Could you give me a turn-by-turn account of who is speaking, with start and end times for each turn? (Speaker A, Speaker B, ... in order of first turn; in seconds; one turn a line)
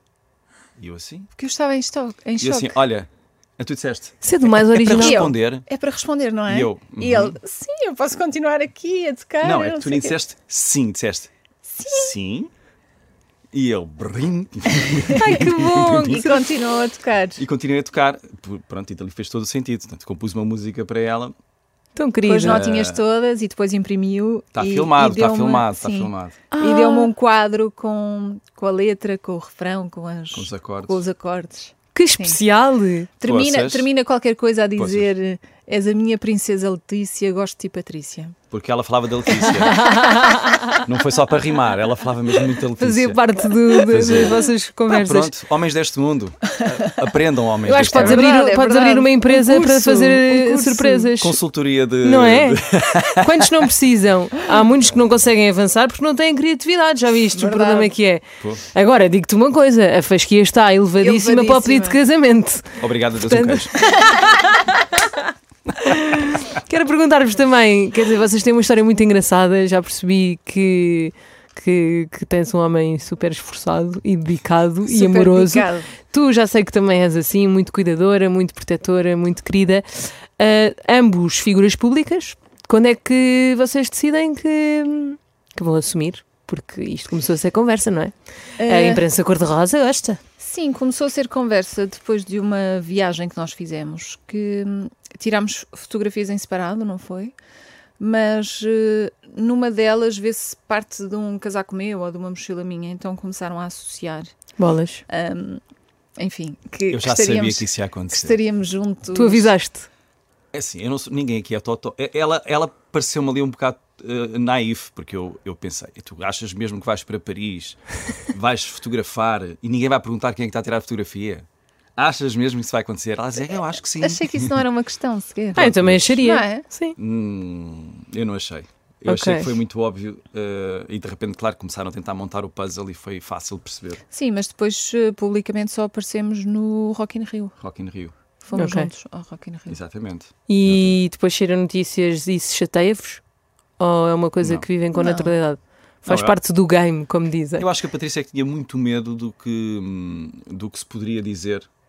Speaker A: 0.8-1.3
Speaker B: 1.4-2.8
Speaker A: 2.4-5.7
Speaker C: 4.2-5.3
Speaker B: 4.9-10.2
Speaker A: 6.5-7.4
Speaker A: 9.4-11.3
Speaker B: 11.7-12.1
Speaker A: 11.9-12.5
Speaker A: 13.5-16.3
Speaker B: 15.1-17.4
Speaker C: 15.2-16.4
Speaker A: 17.4-21.4
Speaker C: 22.0-22.6
Speaker B: 22.2-32.4
Speaker A: 22.4-23.0
Speaker A: 24.5-26.4
Speaker C: 26.5-27.1
Speaker A: 30.3-31.0
Speaker C: 31.9-33.1
Speaker B: 33.2-38.4
Speaker A: 33.2-33.9
Speaker A: 34.8-35.1
Speaker A: 38.5-39.9
Speaker C: 39.5-40.8
Speaker A: 40.8-43.2
Speaker C: 42.8-45.3
Speaker A: 43.9-48.3
Speaker C: 47.7-51.4
Speaker B: 47.7-51.1
Speaker A: 51.2-53.6
Speaker C: 52.0-58.2
Speaker B: 57.3-57.9
Speaker C: 58.7-64.6
Speaker B: 61.0-62.0
Speaker A: 62.8-63.7
Speaker B: 64.0-64.4
Speaker C: 65.8-88.1
Speaker B: 74.9-75.9
Speaker B: 88.6-89.0
Speaker C: 88.7-90.2
Speaker B: 90.4-97.3
Speaker B: 98.0-104.3
Speaker C: 104.6-105.0
Speaker B: 105.1-105.6
Speaker B: 106.2-109.5
Speaker A: 106.9-108.4
Speaker C: 109.2-109.9
Speaker A: 110.5-124.5
Speaker B: 124.0-126.7
Speaker A: 125.6-126.2
Speaker C: 125.6-127.0
Speaker A: 127.0-134.0
Speaker C: 129.1-129.5
Speaker B: 134.1-137.6
Speaker A: 137.6-138.1
Speaker B: 138.4-139.8
Speaker C: 138.6-138.9
Speaker A: 139.7-141.0
Speaker C: 140.5-143.2
Speaker C: 143.8-147.7
Speaker A: 144.4-144.7
Speaker B: 144.9-145.3
Speaker A: 146.1-146.4
Speaker A: 147.6-151.7